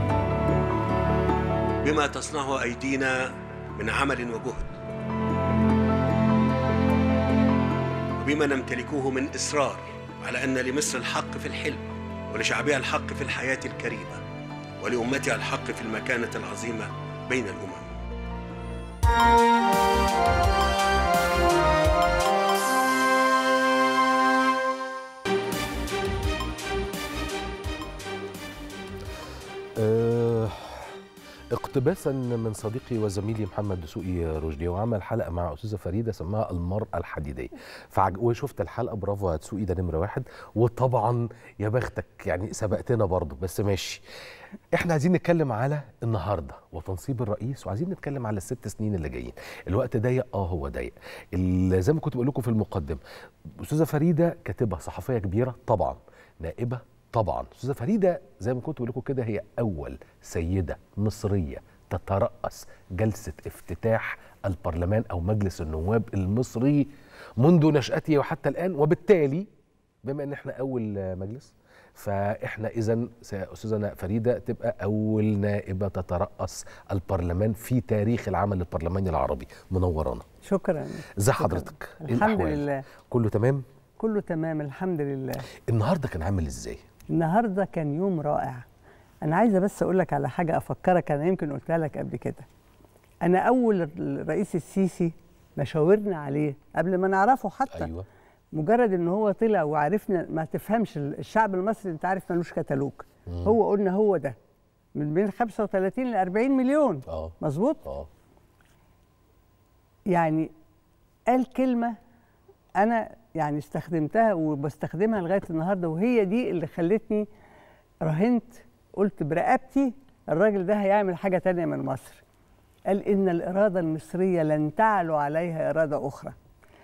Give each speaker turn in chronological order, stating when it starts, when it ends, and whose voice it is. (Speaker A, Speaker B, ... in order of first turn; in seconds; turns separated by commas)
Speaker A: 1.8-4.8, Speaker A: 8.2-14.2, Speaker A: 14.8-17.9, Speaker B: 29.8-31.0, Speaker B: 31.5-44.0, Speaker B: 44.7-53.0, Speaker B: 53.6-69.5, Speaker B: 70.0-80.2, Speaker C: 80.4-82.8, Speaker B: 81.2-83.6, Speaker C: 84.0-85.5, Speaker B: 85.7-86.8, Speaker C: 87.1-88.7, Speaker C: 89.2-92.5, Speaker C: 93.2-97.9, Speaker B: 97.7-98.0, Speaker C: 98.5-104.3, Speaker B: 103.3-103.6, Speaker C: 104.9-107.8, Speaker B: 107.1-108.1, Speaker C: 110.1-110.5, Speaker C: 111.3-112.0, Speaker C: 112.8-117.3, Speaker C: 118.0-122.2, Speaker C: 122.9-126.3